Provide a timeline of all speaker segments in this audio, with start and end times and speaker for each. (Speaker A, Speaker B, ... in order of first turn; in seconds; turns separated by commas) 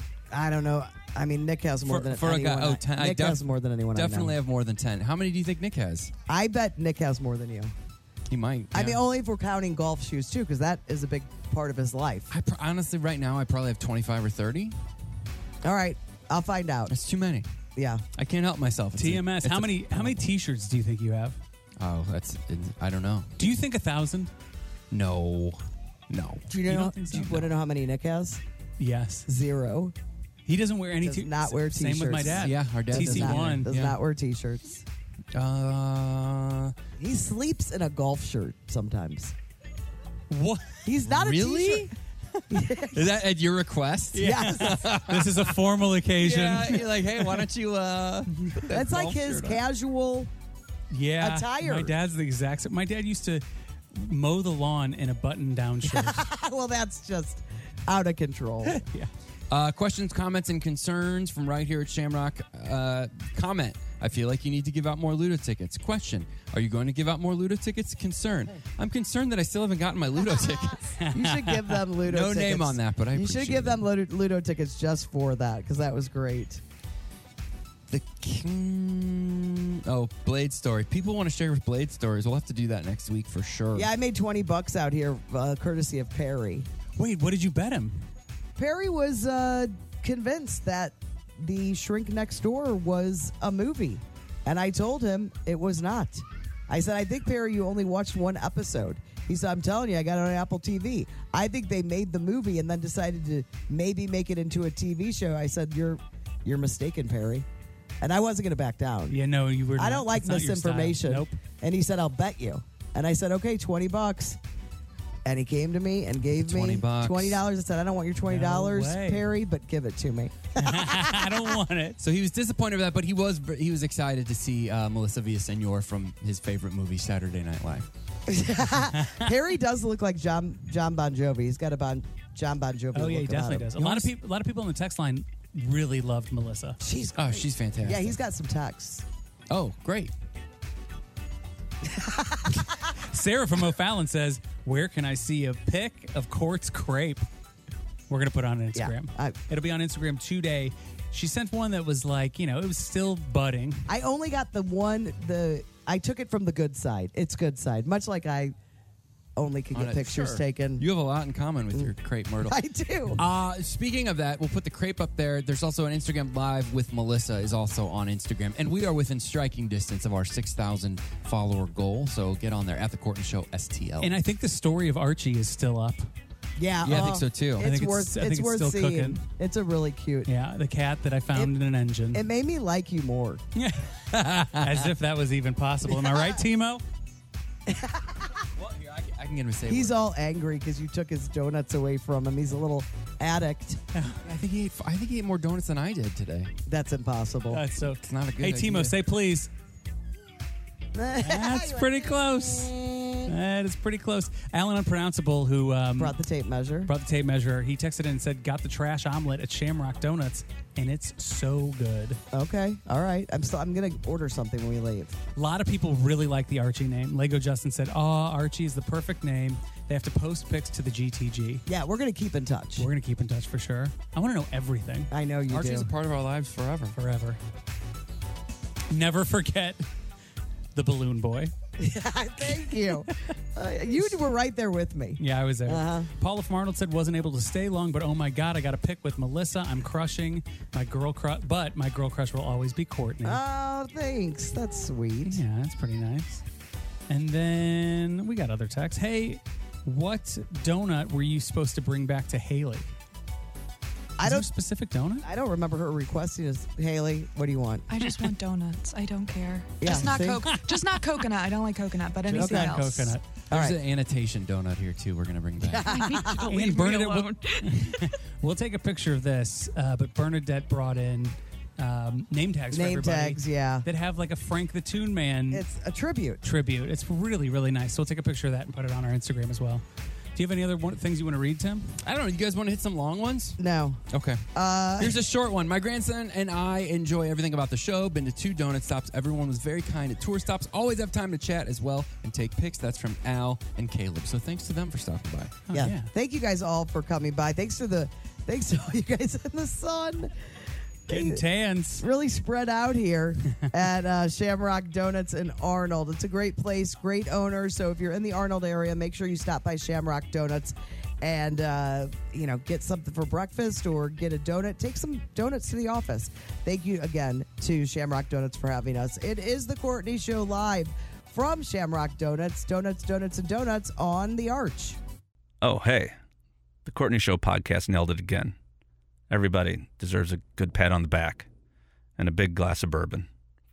Speaker A: 0.3-4.3, Speaker B: 1.8-3.4, Speaker B: 3.9-6.1, Speaker A: 6.3-7.7, Speaker B: 8.3-9.0, Speaker A: 8.7-12.3, Speaker B: 12.3-14.8, Speaker A: 15.6-16.9, Speaker B: 16.9-17.5, Speaker A: 17.8-18.0, Speaker B: 18.1-20.2, Speaker C: 18.9-21.4, Speaker B: 21.8-23.3, Speaker C: 23.4-24.3, Speaker B: 24.9-26.4, Speaker A: 26.5-28.4, Speaker C: 26.6-27.5, Speaker C: 28.8-29.3, Speaker A: 29.3-29.9, Speaker C: 30.5-33.7, Speaker A: 31.0-34.8, Speaker B: 32.3-34.0, Speaker B: 35.3-36.7, Speaker A: 37.0-39.3, Speaker C: 40.3-40.8, Speaker A: 40.8-41.9, Speaker B: 41.0-41.9, Speaker A: 42.5-43.2, Speaker B: 42.9-45.5, Speaker A: 44.1-44.9, Speaker C: 44.1-46.9, Speaker B: 46.2-49.6, Speaker A: 48.7-50.3, Speaker C: 50.9-56.2, Speaker A: 51.2-51.9, Speaker A: 55.8-58.8, Speaker C: 58.6-59.1, Speaker B: 59.5-70.9, Speaker C: 71.0-71.8, Speaker A: 71.1-76.6, Speaker B: 72.0-73.8, Speaker B: 77.9-83.9, Speaker A: 83.7-86.7, Speaker C: 87.0-88.0, Speaker A: 88.5-107.5, Speaker A: 108.0-109.2, Speaker C: 109.1-111.4, Speaker A: 109.8-114.4, Speaker A: 115.2-121.4, Speaker B: 116.3-117.4, Speaker C: 118.2-119.2, Speaker C: 120.6-122.0, Speaker B: 122.0-127.9, Speaker A: 128.3-134.1, Speaker C: 128.9-129.3, Speaker C: 132.9-136.8, Speaker A: 136.8-139.0, Speaker B: 137.2-138.2, Speaker B: 139.5-140.1, Speaker A: 141.8-142.6, Speaker C: 142.9-147.2, Speaker C: 148.1-153.9, Speaker A: 148.7-149.4, Speaker A: 153.9-158.5, Speaker A: 159.3-160.8, Speaker B: 159.7-162.6, Speaker A: 162.4-163.2, Speaker B: 163.1-174.2, Speaker C: 174.0-176.1, Speaker A: 176.6-180.3, Speaker B: 176.8-177.7, Speaker C: 177.6-179.2, Speaker C: 180.2-182.2, Speaker A: 182.1-183.4, Speaker C: 183.6-186.8, Speaker A: 185.9-186.4, Speaker A: 187.7-188.3, Speaker B: 188.6-190.0, Speaker A: 189.7-193.8, Speaker C: 193.9-194.2, Speaker B: 194.2-196.5, Speaker A: 196.7-197.6, Speaker C: 197.5-199.5, Speaker B: 198.0-199.0, Speaker A: 200.9-203.1, Speaker C: 201.2-202.7, Speaker C: 203.2-206.1, Speaker A: 206.0-206.9, Speaker C: 206.8-212.2, Speaker A: 212.3-215.1, Speaker C: 215.3-221.6, Speaker A: 221.7-222.9, Speaker C: 222.8-225.1, Speaker A: 225.1-225.9, Speaker B: 225.5-227.0, Speaker C: 226.9-227.4, Speaker C: 228.9-229.8, Speaker C: 230.7-231.5, Speaker A: 231.8-236.1, Speaker C: 235.2-243.4, Speaker A: 243.2-245.4, Speaker C: 245.2-246.4, Speaker C: 247.1-252.9, Speaker A: 254.2-254.5, Speaker C: 254.2-255.2, Speaker A: 255.2-257.9, Speaker D: 257.9-263.2, Speaker A: 259.8-260.6, Speaker C: 262.3-263.2, Speaker A: 262.3-262.8, Speaker A: 263.5-263.8, Speaker B: 263.5-265.9, Speaker A: 265.6-266.5, Speaker D: 265.8-267.3, Speaker C: 266.4-275.6, Speaker A: 272.7-273.9, Speaker A: 275.5-276.4, Speaker C: 276.4-279.8, Speaker C: 280.4-281.9, Speaker B: 282.0-283.6, Speaker A: 283.6-284.0, Speaker B: 284.1-295.6, Speaker A: 284.5-285.2, Speaker C: 295.7-296.1, Speaker A: 295.7-300.3, Speaker A: 301.1-301.4, Speaker C: 301.1-302.0, Speaker A: 302.0-325.0, Speaker E: 325.6-326.1, Speaker E: 326.8-328.5, Speaker E: 329.3-331.5, Speaker E: 332.2-333.3